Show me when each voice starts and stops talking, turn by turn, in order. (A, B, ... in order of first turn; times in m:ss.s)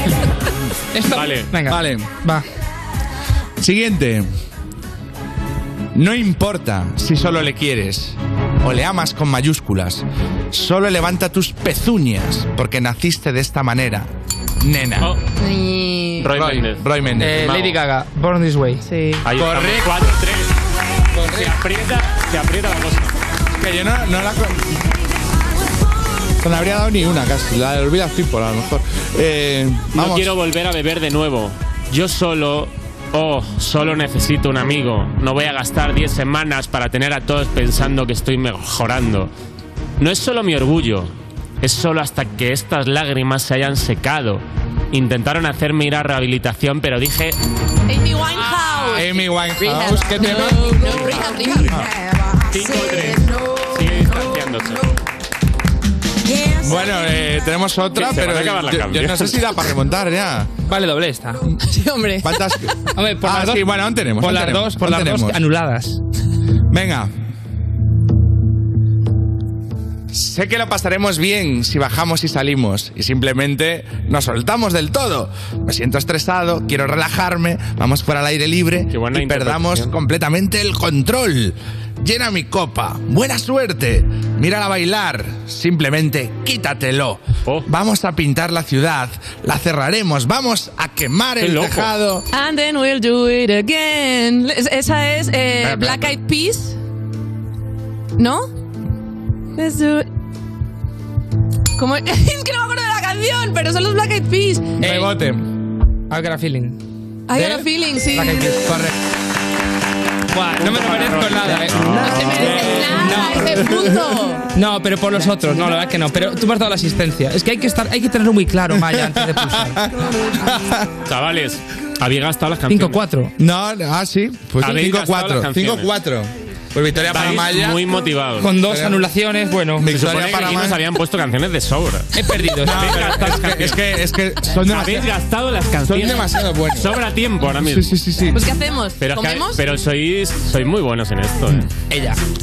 0:00.9-0:02.4 A
0:01.1-0:01.5 B
0:01.6-0:02.1 C
0:03.6-0:04.3 C
0:05.9-0:14.1 C
0:14.6-0:15.1 C
0:15.0-0:15.2 B
0:15.4-0:16.3 D
0:16.2-0:16.8 B
0:16.3-0:17.4 C
0:17.2-0:18.8 A
0:17.4-0:17.8 B
0:18.8-0:19.2 D
0:19.2-0:20.5 B
0:19.4-0:20.0 C
0:21.2-0:21.5 A
0:21.2-0:23.1 B
0:23.6-0:24.7 C
0:26.4-0:30.3 C
0:29.9-0:39.3 B
0:40.0-0:47.4 B
0:47.9-0:51.9 D
0:48.9-0:50.8 C
0:50.7-0:51.8 B
0:52.5-0:54.9 B
0:52.8-0:53.1 D
0:56.6-1:00.5 C
0:58.0-0:59.5 B
1:00.6-1:01.5 A
1:01.7-1:02.4 D
1:02.2-1:05.5 C
1:02.9-1:06.0 A
1:06.7-1:07.1 C
1:10.1-1:32.2 C
1:18.9-1:19.9 B
1:31.4-1:31.9 B
1:32.3-1:36.7 D
1:35.7-1:36.1 B
1:38.2-1:38.5 D
1:39.6-1:40.0 D
1:41.8-1:44.8 D
1:44.8-1:45.2 A
1:44.8-1:45.5 C
1:46.1-1:46.8 A
1:47.3-1:48.5 D
1:47.3-1:48.9 A
1:48.6-1:48.9 C
1:50.3-1:53.8 A
1:50.6-1:52.9 B
1:52.0-1:54.5 D
1:53.6-1:54.0 C
1:54.5-1:59.8 A
1:58.7-2:00.9 C
2:01.0-2:03.0 B
2:02.7-2:03.3 A
2:03.4-2:07.8 C
2:04.6-2:05.9 B
2:07.1-2:08.5 B
2:08.4-2:09.9 A
2:08.6-2:09.0 C
2:09.7-2:10.8 C
2:09.8-2:13.8 B
2:12.1-2:13.7 A
2:12.6-2:15.1 C
2:14.6-2:18.0 B
2:15.9-2:16.9 C
2:17.5-2:18.4 C
2:18.3-2:19.6 D
2:19.0-2:21.7 B
2:21.9-2:22.2 A